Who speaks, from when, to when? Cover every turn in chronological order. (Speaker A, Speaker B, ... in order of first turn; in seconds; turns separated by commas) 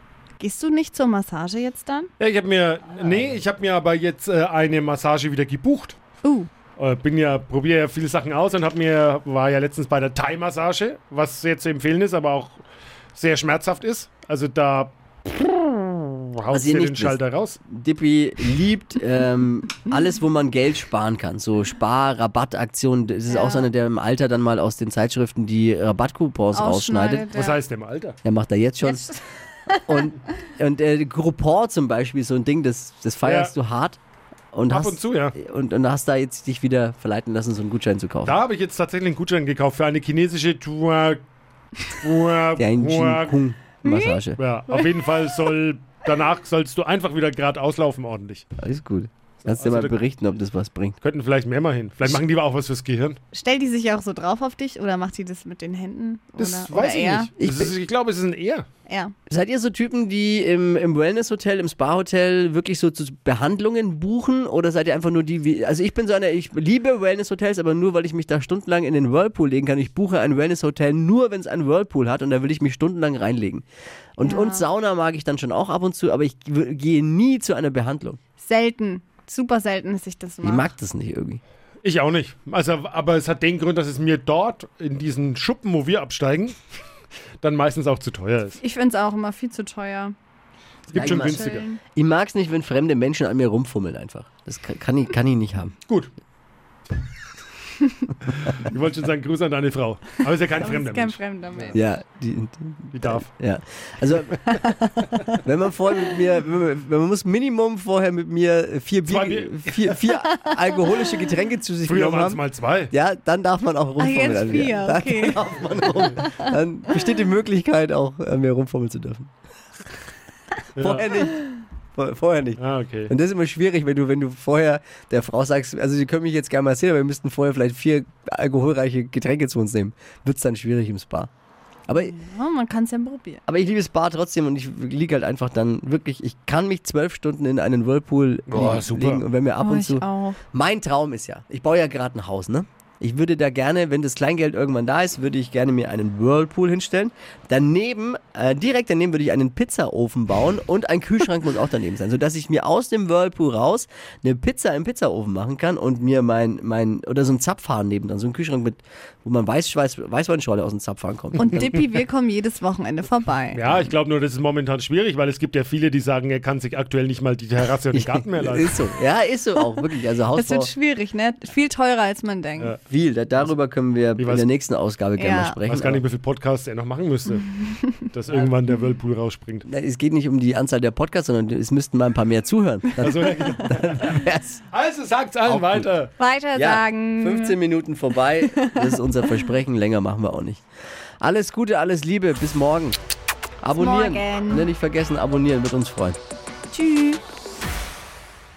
Speaker A: 0.4-2.1, Speaker B: 2.2-6.0, Speaker A: 6.2-6.5, Speaker B: 6.8-12.6, Speaker B: 13.1-17.6, Speaker C: 16.5-27.3, Speaker A: 23.3-23.7, Speaker A: 26.5-27.6, Speaker B: 27.3-28.2, Speaker C: 28.2-29.1, Speaker A: 28.8-29.2, Speaker C: 29.9-34.0, Speaker B: 33.2-33.5, Speaker C: 34.5-38.4, Speaker B: 34.7-35.4, Speaker B: 38.2-41.2, Speaker B: 41.9-43.4, Speaker C: 42.6-44.4, Speaker A: 43.8-44.2, Speaker B: 44.4-48.5, Speaker C: 48.6-51.0, Speaker B: 49.5-50.0, Speaker B: 51.0-53.2, Speaker A: 53.3-57.3, Speaker B: 56.4-58.6, Speaker C: 57.4-57.7, Speaker A: 58.9-59.1, Speaker C: 59.3-73.6, Speaker C: 74.2-78.2, Speaker A: 74.2-74.6, Speaker A: 78.4-80.7, Speaker C: 80.4-81.4, Speaker B: 81.8-86.6, Speaker B: 87.4-88.6, Speaker A: 88.6-90.1, Speaker B: 90.9-91.6, Speaker A: 90.9-91.8, Speaker C: 90.9-95.8, Speaker B: 98.3-101.8, Speaker A: 100.5-101.9, Speaker C: 101.7-112.4, Speaker B: 102.9-103.3, Speaker A: 104.5-105.0, Speaker B: 109.1-110.1, Speaker A: 110.4-111.3, Speaker B: 111.9-112.9, Speaker C: 112.9-119.3, Speaker A: 114.0-115.4, Speaker A: 116.1-116.5, Speaker B: 120.8-121.1, Speaker C: 120.8-131.3, Speaker B: 122.6-123.1, Speaker C: 131.9-132.1, Speaker A: 131.9-133.4, Speaker C: 133.5-161.8, Speaker B: 138.5-139.2, Speaker A: 139.6-140.4, Speaker A: 161.4-163.8, Speaker B: 163.5-168.8, Speaker C: 167.9-170.7, Speaker A: 170.3-172.8, Speaker C: 172.9-176.0, Speaker B: 174.2-174.5, Speaker A: 175.2-175.6, Speaker B: 175.7-179.7, Speaker C: 179.7-184.6, Speaker B: 183.0-186.1, Speaker C: 185.5-185.9, Speaker A: 186.2-187.6, Speaker C: 186.6-190.6, Speaker A: 188.5-189.0, Speaker C: 191.2-193.0, Speaker C: 193.6-196.2, Speaker A: 193.7-194.7, Speaker A: 196.7-197.2